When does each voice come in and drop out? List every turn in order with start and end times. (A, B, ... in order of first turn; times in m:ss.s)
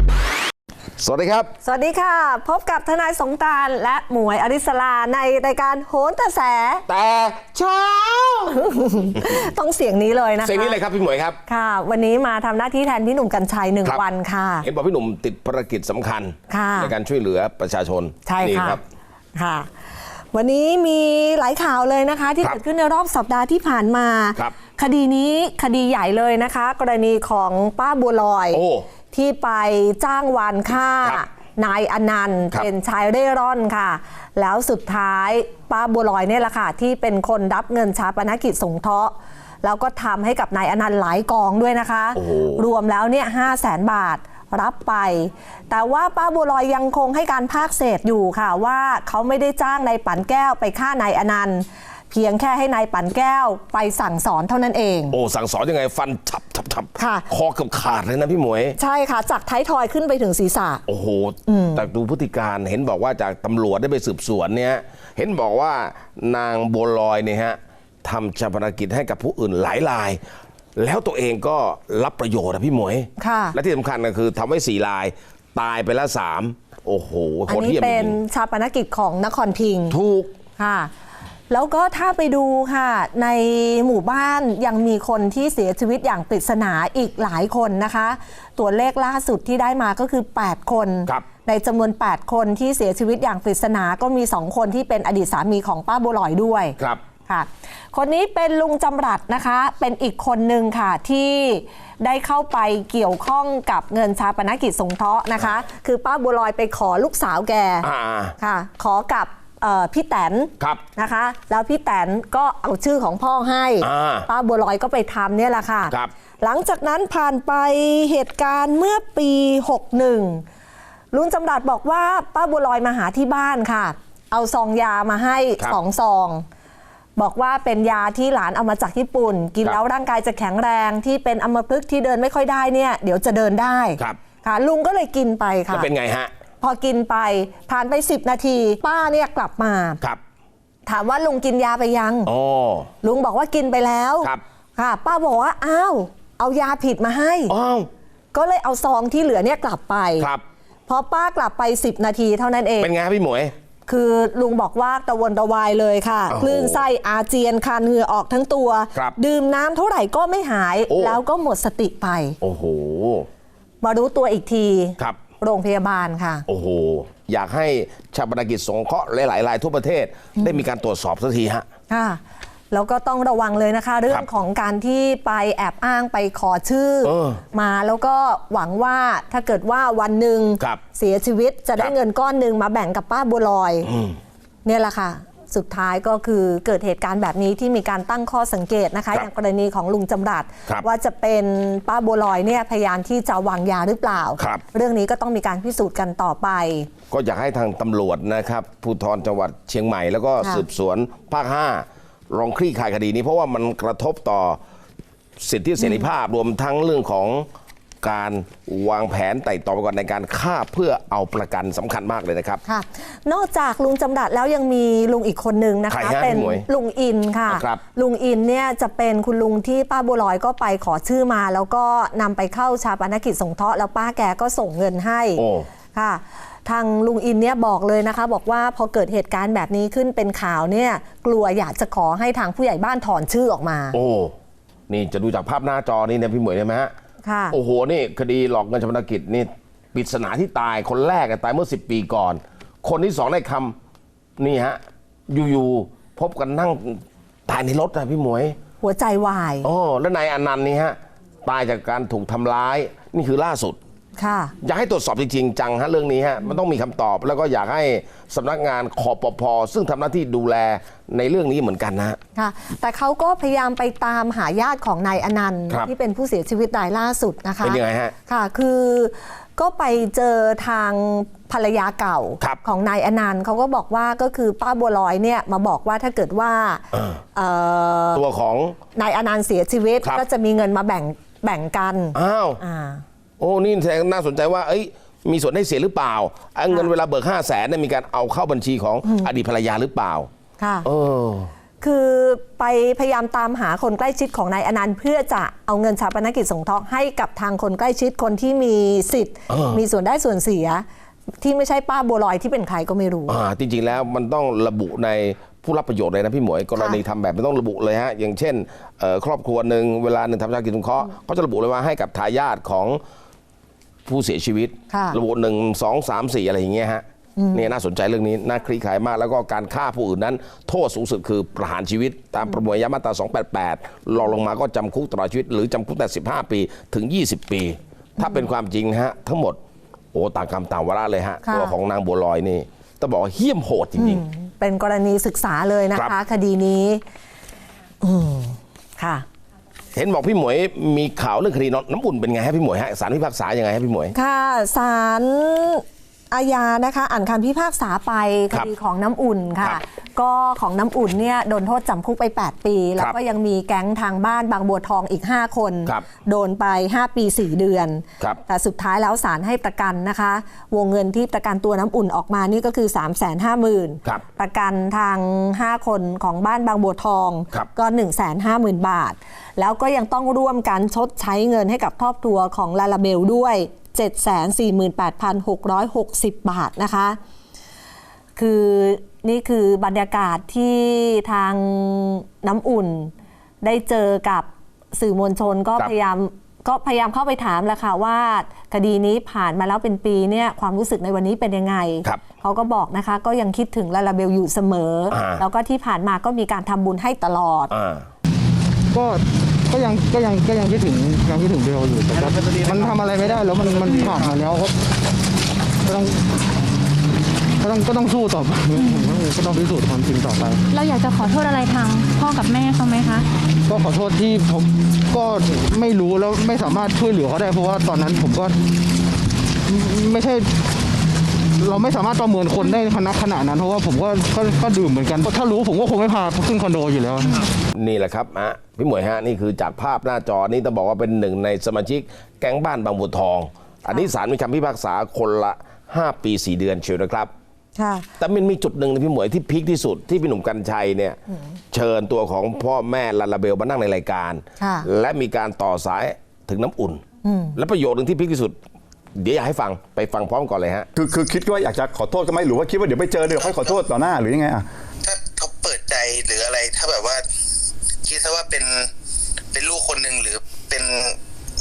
0:01.0-0:01.5 A
0:01.6-0:06.8 B
0:06.9-0:08.6 A
0:08.5-0:10.8 B
0:09.2-0:09.5 A
0:10.4-0:11.4 A
0:11.5-0:14.7 B
0:14.6-0:18.8 A
0:16.5-0:16.9 B
0:18.3-0:18.8 B
0:19.4-0:19.7 B
0:20.3-0:55.2 B
0:28.5-0:28.9 A
0:42.2-0:42.6 A
0:55.1-0:58.8 A
0:57.0-0:57.3 B
0:58.8-1:00.8 B
1:00.9-1:10.2 A
1:01.5-1:01.8 B
1:10.8-1:18.2 A
1:13.2-1:13.6 B
1:17.5-1:20.0 B
1:19.9-1:20.3 A
1:20.6-1:20.9 B
1:21.5-1:36.8 B
1:37.3-1:47.9 B
1:47.8-1:48.4 A
1:48.4-2:00.4 B
1:53.8-1:54.3 A
2:01.1-2:06.4 B
2:07.2-2:15.9 B
2:15.7-2:16.3 A
2:16.6-2:20.0 B
2:20.9-2:22.3 B
2:22.3-2:22.9 A
2:23.0-2:27.5 B
2:27.5-2:27.9 A
2:28.3-2:30.3 B
2:30.2-2:30.4 A
2:30.9-2:32.9 B
2:32.8-2:33.5 A
2:33.9-2:42.4 B
2:36.3-2:36.8 A
2:40.9-2:41.2 A
2:42.4-2:43.3 A
2:43.8-2:46.4 B
2:46.5-2:51.7 A
2:51.9-3:03.9 B
2:57.0-2:57.4 A
3:03.8-3:04.2 A
3:04.6-3:16.9 B
3:14.4-3:14.6 A
3:17.1-3:24.6 A
3:25.4-3:27.5 A
3:25.8-3:26.0 B
3:28.0-3:32.6 A
3:32.7-3:45.4 B
3:35.9-3:36.6 A
3:37.5-3:37.8 A
3:45.4-3:45.7 A
3:45.9-3:54.0 B
3:53.9-3:54.3 A
3:54.9-3:56.9 A
3:57.2-3:57.6 B
3:57.5-4:03.8 A
4:04.4-4:08.6 A
4:08.8-4:09.7 B
4:09.6-4:13.8 A
4:14.2-4:14.5 B
4:14.6-4:22.2 A
4:22.4-4:38.2 B
4:27.6-4:28.1 A
4:36.9-4:37.2 A
4:38.1-4:38.8 A
4:39.0-4:43.0 B
4:42.1-4:42.6 A
4:43.4-4:50.3 A
4:50.6-4:50.9 B
4:50.8-4:51.5 A
4:51.8-5:00.8 B
4:59.5-4:59.8 A
5:01.4-5:03.4 B
5:03.3-5:13.0 A
5:14.1-5:29.6 A
5:14.9-5:15.2 B
5:17.4-5:17.6 B
5:30.1-5:34.2 A
5:31.4-5:31.7 B
5:34.0-5:37.0 B
5:38.0-5:39.3 B
5:39.9-5:44.1 A
5:44.1-6:17.2 B
6:18.4-6:37.7 B
6:35.1-6:35.4 A
6:37.7-6:38.1 A
6:38.9-6:44.8 C
6:42.6-6:43.4 D
6:43.8-6:44.3 E
6:45.8-6:46.2 C
6:47.6-6:50.6 C
6:48.7-6:49.2 E
6:50.7-6:53.3 E
6:53.7-6:58.6 C
6:59.7-7:00.6 C
7:01.6-7:07.5 C
7:07.7-7:17.3 A
7:17.8-7:18.1 B
7:18.2-7:21.2 A
7:21.7-7:27.0 A
7:24.6-7:24.9 B
7:27.2-7:27.6 B
7:27.6-7:28.6 A
7:29.2-7:30.9 A
7:31.0-7:34.6 F
7:35.0-7:37.2 D
7:38.0-7:38.9 D
7:39.5-7:41.2 D